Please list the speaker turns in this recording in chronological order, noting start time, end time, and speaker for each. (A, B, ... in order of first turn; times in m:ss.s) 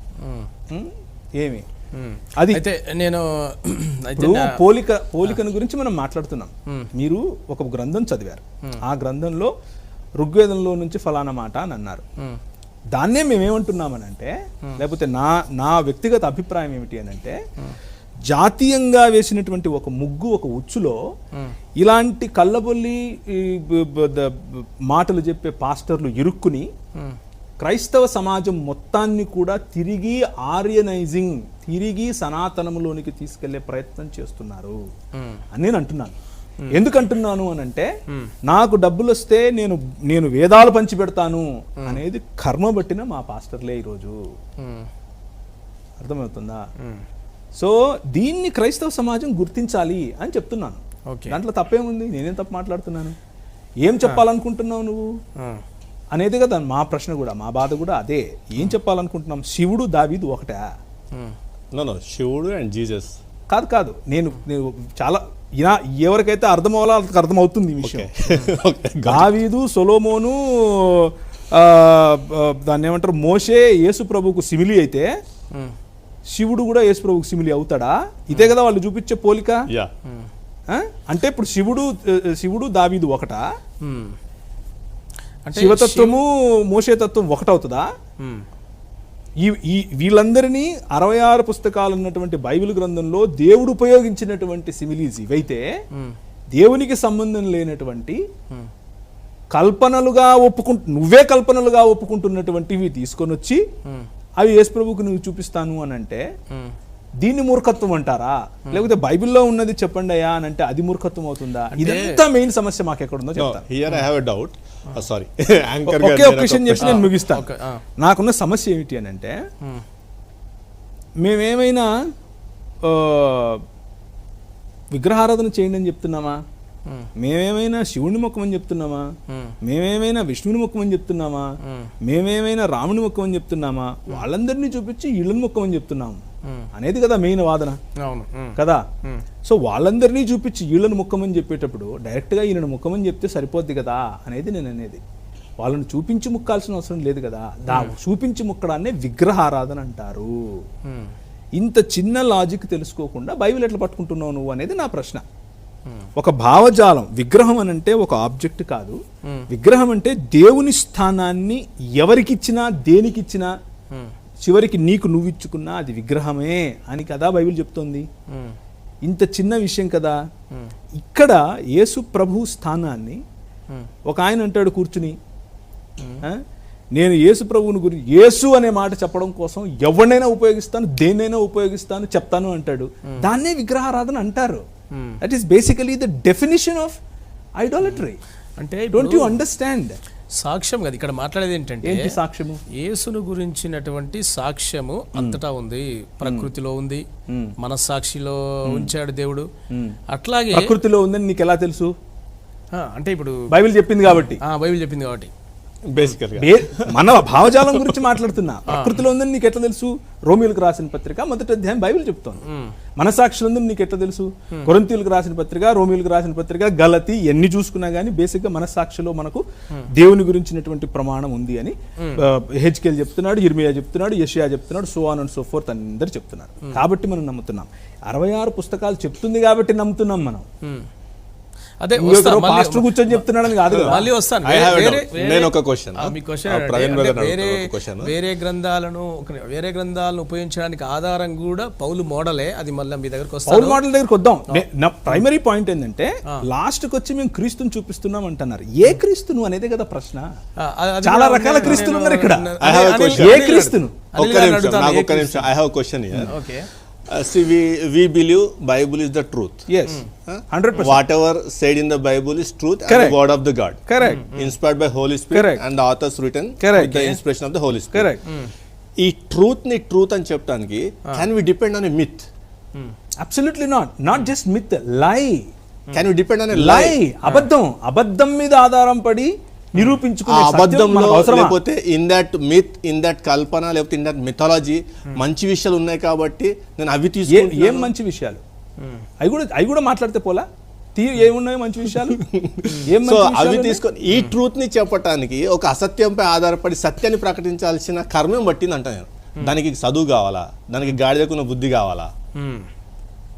0:00.2-0:00.5 A
0:00.7-0:01.6 B
0:01.9-0:04.6 A
0:02.4-0:02.6 B
0:04.2-0:09.5 B
0:10.2-0:12.0 B
0:12.9-0:17.4 B
0:18.3-0:21.0 B
0:21.8-0:26.7 B
0:27.6-0:34.8 B
0:35.2-0:35.4 A
0:35.5-0:36.1 B
0:36.7-0:37.9 B
0:38.5-0:44.2 B
0:44.6-0:44.9 A
0:46.0-0:46.6 B
0:47.6-0:53.1 B
0:51.1-0:51.4 A
0:53.8-0:55.0 B
0:56.1-1:00.7 B
1:01.7-1:03.1 C
1:03.5-1:08.1 B
1:07.8-1:09.3 C
1:09.0-1:15.1 B
1:16.3-1:19.6 B
1:20.7-1:23.4 B
1:23.8-1:24.2 A
1:25.4-1:26.2 A
1:25.5-1:27.9 B
1:29.4-1:35.6 B
1:36.5-1:38.2 B
1:39.5-1:43.6 B
1:44.4-1:46.2 B
1:47.2-1:53.6 B
1:51.8-1:52.2 A
1:53.4-1:57.1 C
1:55.8-1:57.5 B
1:56.8-1:57.8 A
1:58.0-1:59.4 B
2:01.2-2:01.9 B
2:02.8-2:03.6 B
2:04.9-2:06.4 B
2:07.2-2:09.0 B
2:09.3-2:09.5 A
2:09.6-2:16.2 B
2:11.6-2:11.9 A
2:16.7-2:17.8 B
2:18.0-2:19.2 A
2:18.6-2:18.8 B
2:19.4-2:25.0 B
2:25.6-2:30.3 B
2:30.8-2:31.1 A
2:31.6-2:35.2 B
2:36.2-2:39.0 B
2:39.5-2:43.5 B
2:44.4-2:48.1 B
2:48.3-2:48.6 A
2:49.0-2:50.2 B
2:51.0-2:53.2 B
2:54.1-2:55.1 B
2:56.0-2:56.2 A
2:56.9-3:04.6 B
3:04.9-3:05.2 A
3:05.2-3:07.0 B
3:07.6-3:08.2 B
3:08.6-3:09.4 A
3:08.9-3:10.0 B
3:10.4-3:12.1 A
3:11.8-3:12.6 B
3:12.8-3:17.0 A
3:16.2-3:16.5 B
3:17.3-3:17.5 B
3:17.6-3:19.5 A
3:18.6-3:18.9 B
3:19.7-3:20.0 B
3:20.1-3:20.7 A
3:20.5-3:21.9 B
3:22.7-3:23.5 A
3:23.5-3:24.4 B
3:24.1-3:25.3 A
3:25.9-3:28.0 C
3:26.4-3:32.4 B
3:28.7-3:29.0 A
3:32.4-3:32.7 A
3:33.0-3:50.4 B
3:51.8-4:03.8 A
3:52.0-3:54.1 B
3:53.6-3:58.1 C
4:03.5-4:10.3 B
4:04.5-4:05.2 A
4:10.6-4:15.5 A
4:11.0-4:12.5 B
4:12.6-4:16.3 C
4:13.1-4:14.0 B
4:16.3-4:16.7 A
4:17.1-4:19.6 C
4:19.7-4:21.0 B
4:20.3-4:28.2 C
4:22.9-4:23.2 B
4:23.8-4:24.2 B
4:24.0-4:24.5 A
4:25.3-4:25.6 B
4:26.6-4:27.1 B
4:27.9-4:28.2 B
4:28.2-4:28.5 A
4:29.0-4:32.2 C
4:33.2-4:35.4 B
4:35.9-4:37.0 C
4:36.5-4:41.6 B
4:40.2-4:47.9 C
4:47.3-4:48.4 B
4:49.2-4:52.2 B
4:52.1-5:02.1 C
4:52.8-4:53.8 B
5:02.4-5:02.7 A